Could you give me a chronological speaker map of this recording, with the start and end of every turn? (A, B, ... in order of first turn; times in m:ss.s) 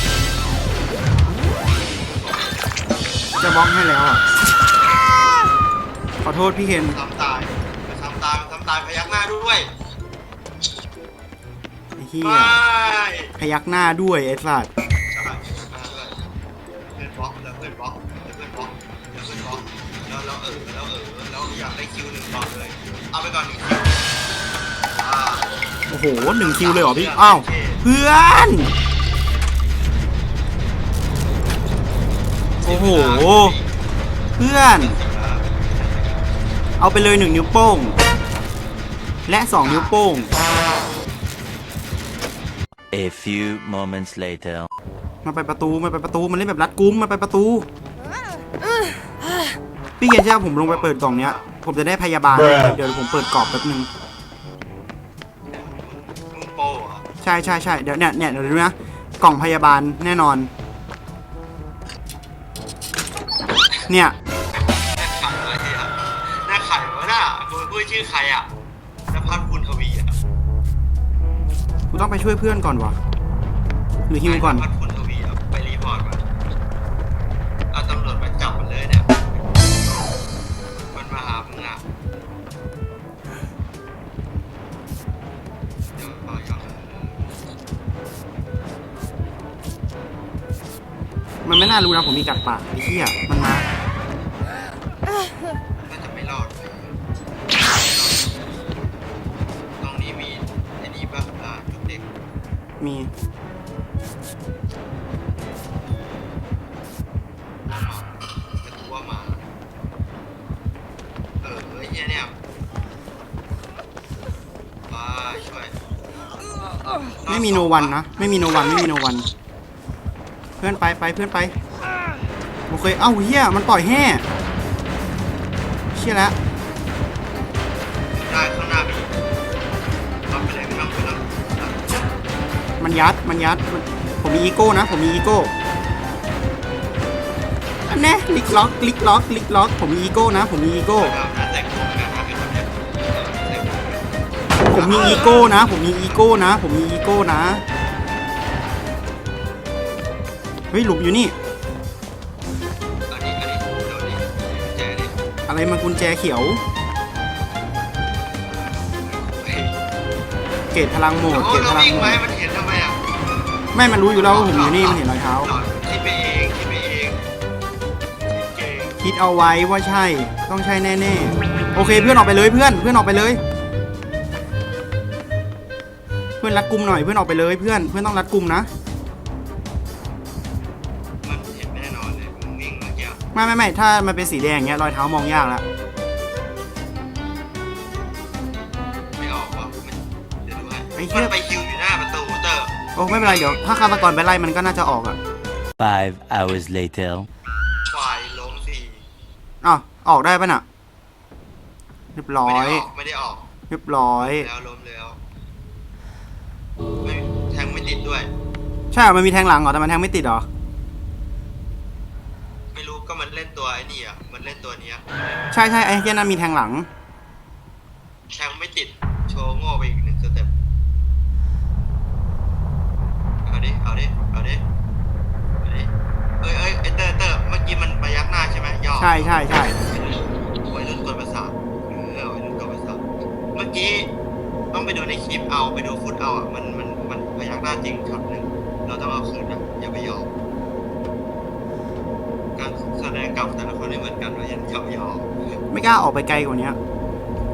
0:01.6-0:02.6 A
0:03.4-0:04.2 B
0:06.2-0:07.0 B
0:06.9-0:09.7 A
0:12.0-0:12.6 B
0:12.2-0:13.3 A
0:13.4-0:14.7 B
0:15.1-0:16.2 A
0:16.9-0:24.0 A
0:25.0-0:25.5 A
0:25.9-0:28.7 B
0:26.4-0:27.8 A
0:32.6-0:33.7 A
0:32.6-0:33.6 B
0:34.4-0:35.0 B
0:34.6-0:36.2 A
0:36.8-0:38.0 B
0:39.3-0:40.3 B
0:39.6-0:40.4 A
0:42.9-0:44.7 C
0:45.2-0:47.7 B
0:50.0-0:53.9 B
0:50.6-0:51.5 A
0:55.5-0:57.0 A
0:57.2-1:00.5 B
1:03.9-1:04.2 B
1:04.7-1:08.5 A
1:09.1-1:10.2 A
1:11.9-1:13.0 B
1:14.1-1:14.6 B
1:14.2-1:16.2 A
1:17.7-1:19.3 A
1:20.8-1:21.8 A
1:26.0-1:27.3 A
1:31.4-1:33.7 B
1:35.8-1:37.0 A
1:37.6-1:38.4 A
1:39.8-1:42.0 A
1:42.8-1:43.1 B
1:47.6-1:49.4 A
1:51.4-1:52.4 A
1:54.9-1:55.7 A
1:57.2-1:58.0 A
1:57.3-1:59.3 B
2:00.6-2:01.5 B
2:02.7-2:04.2 B
2:06.0-2:06.4 B
2:08.1-2:09.1 A
2:10.3-2:12.1 A
2:12.8-2:15.5 B
2:17.9-2:21.2 B
2:21.0-2:24.1 A
2:24.6-2:25.6 A
2:24.6-2:27.6 B
2:30.7-2:31.4 B
2:33.1-2:35.2 A
2:35.5-2:36.6 B
2:38.6-2:39.8 A
2:40.7-2:42.2 B
2:41.3-2:43.0 A
2:43.7-2:45.5 B
2:44.1-2:47.2 A
2:48.3-2:49.0 A
2:49.0-2:53.4 B
2:56.4-2:58.7 B
3:01.2-3:03.2 A
3:03.3-3:05.6 B
3:09.2-3:13.5 A
3:11.0-3:11.3 B
3:13.0-3:15.2 B
3:15.8-3:17.3 C
3:17.9-3:19.0 A
3:19.6-3:20.6 B
3:22.2-3:22.9 B
3:22.4-3:23.5 A
3:23.7-3:24.5 B
3:24.2-3:25.2 A
3:27.0-3:28.3 A
3:28.9-3:30.5 B
3:32.7-3:35.2 A
3:35.5-3:36.9 B
3:38.3-3:40.5 A
3:43.4-3:44.6 A
3:45.6-3:53.0 A
3:49.0-3:49.7 B
3:53.5-3:54.1 A
3:54.7-4:00.3 A
4:02.6-4:05.3 A
4:05.7-4:06.8 B